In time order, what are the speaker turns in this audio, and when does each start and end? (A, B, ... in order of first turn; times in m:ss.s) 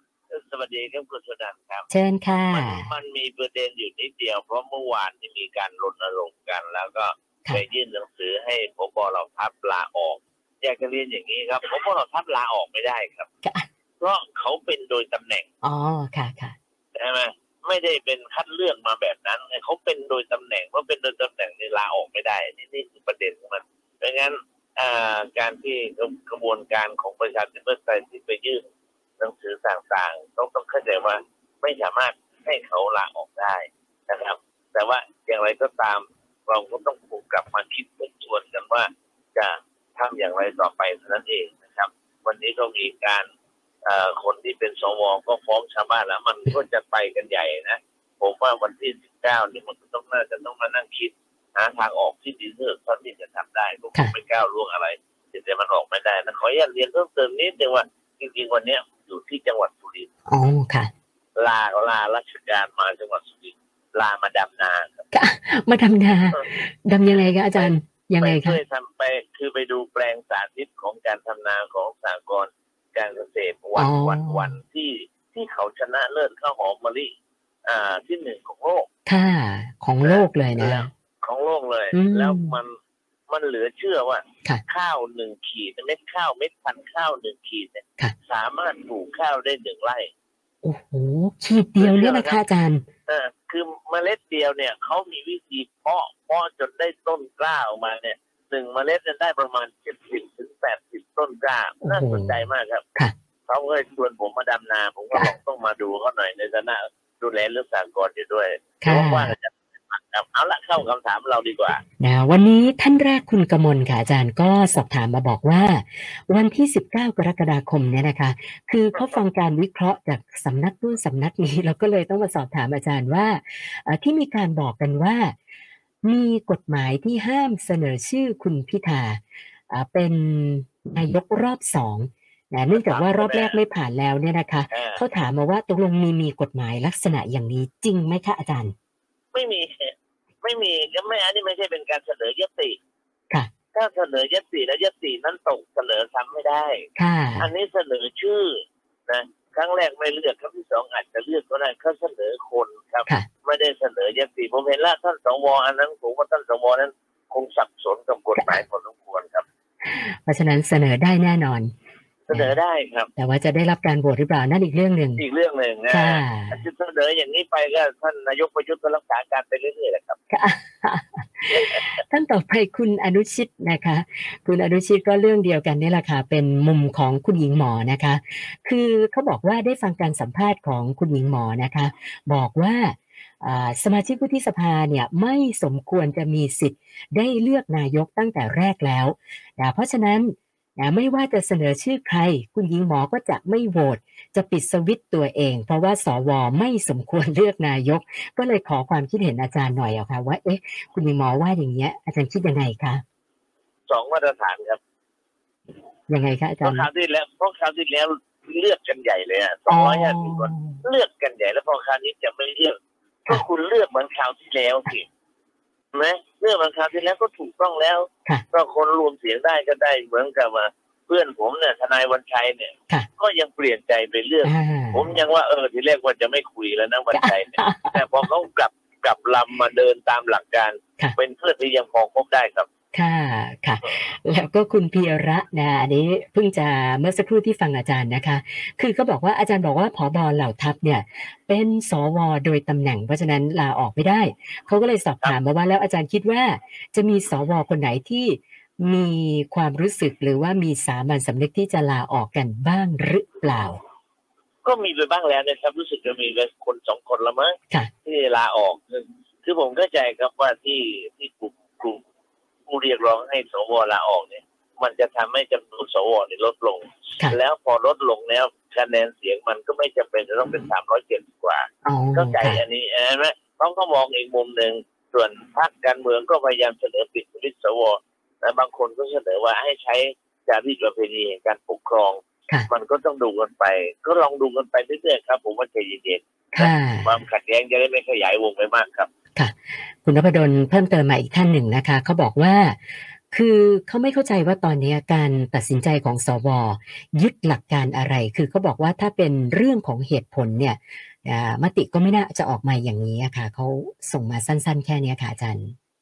0:00.3-0:01.9 A
0:01.9-0:02.9 B
0:02.5-0:13.3 A
0:14.0-0:15.5 A
0:15.6-0:16.6 B
0:16.9-0:28.6 A
0:29.2-0:43.2 A
0:43.8-1:00.1 A
1:00.3-1:00.9 B
1:01.4-1:05.0 A
1:05.1-1:08.6 B
1:07.5-1:17.1 A
1:13.8-1:14.6 B
1:17.6-1:18.9 A
1:19.1-1:20.9 B
1:20.0-1:22.8 A
1:21.9-1:22.6 B
1:23.3-1:30.1 A
1:30.6-1:32.8 B
1:31.8-1:32.4 A
1:33.1-1:42.8 A
1:41.8-1:42.4 B
1:43.5-1:51.8 A
1:48.8-1:49.4 B
1:52.0-2:05.3 B
2:06.0-2:18.7 B
2:12.7-2:13.6 A
2:14.7-2:15.0 A
2:19.3-2:22.8 A
2:23.7-2:26.8 A
2:27.0-2:27.5 B
2:27.4-2:39.4 A
2:38.4-2:38.6 B
2:39.8-2:41.7 B
2:42.3-2:43.1 A
2:43.2-2:45.2 B
2:45.2-2:50.2 A
2:45.9-2:46.6 B
2:50.3-3:23.0 B
3:23.9-3:24.8 A
3:26.1-3:26.9 B
3:26.6-3:32.8 A
3:29.7-3:30.8 B
3:33.3-3:35.1 A
3:35.9-3:52.7 A
3:44.4-3:45.1 B
3:47.1-3:48.3 B
3:52.9-4:13.8 B
4:14.6-4:22.0 A
4:22.7-4:49.1 A
4:31.8-4:32.6 B
4:46.5-4:47.1 B
4:49.3-4:52.8 B
4:53.3-5:05.7 B